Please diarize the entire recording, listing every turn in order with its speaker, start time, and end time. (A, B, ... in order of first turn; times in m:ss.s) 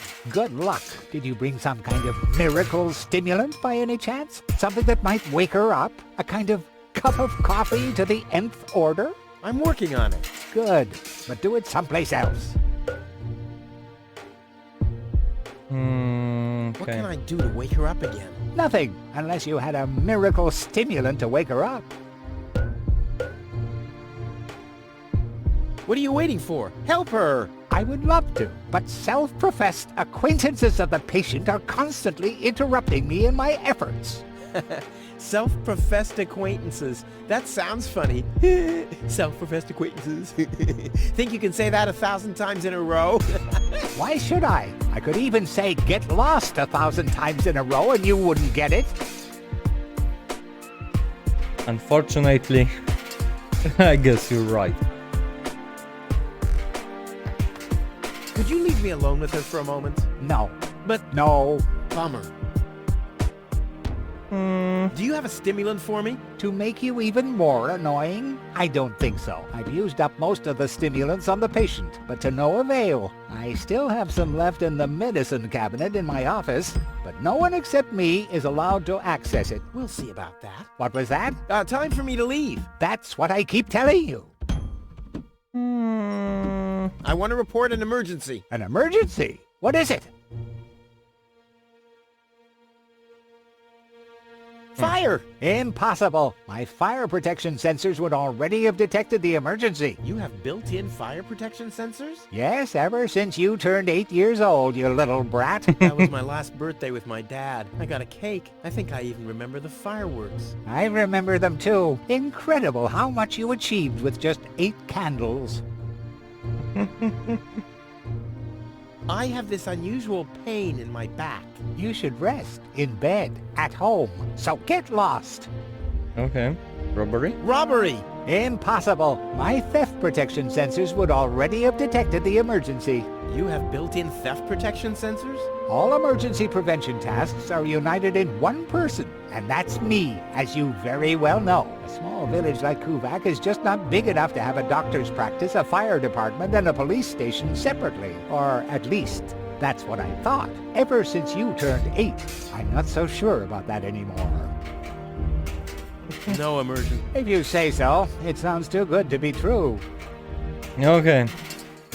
0:00.2-0:09.2 A
0:09.4-0:10.3 B
0:10.5-0:12.6 A
0:15.7-0:17.1 C
0:16.8-0:18.4 B
0:18.5-0:21.9 A
0:25.8-0:27.5 B
0:27.7-0:34.2 A
0:34.5-0:43.8 B
0:43.9-0:49.0 A
0:51.6-0:52.7 C
0:53.6-0:54.8 C
0:58.3-1:00.1 B
1:00.2-1:00.6 A
1:01.1-1:01.7 A
1:01.9-1:02.3 B
1:04.3-1:04.9 C
1:04.9-1:06.2 B
1:06.4-1:19.6 A
1:19.7-1:20.7 B
1:20.8-1:21.4 A
1:21.5-1:22.7 B
1:22.8-1:24.3 A
1:25.5-1:26.9 C
1:27.0-1:28.4 B
1:28.5-1:30.1 A
1:34.8-1:35.2 B
1:35.4-1:40.0 A
1:40.0-1:42.2 B
1:42.3-1:45.8 A
1:45.8-1:50.5 B
1:50.6-1:55.6 A
1:56.8-1:57.4 C
1:59.1-2:01.6 B
2:01.7-2:05.5 A
2:06.2-2:07.4 C
2:07.4-2:08.1 B
2:08.2-2:13.1 A
2:13.3-2:15.5 B
2:15.7-2:34.5 A
2:36.2-2:37.1 B
2:37.1-2:39.8 A
2:40.8-2:41.3 C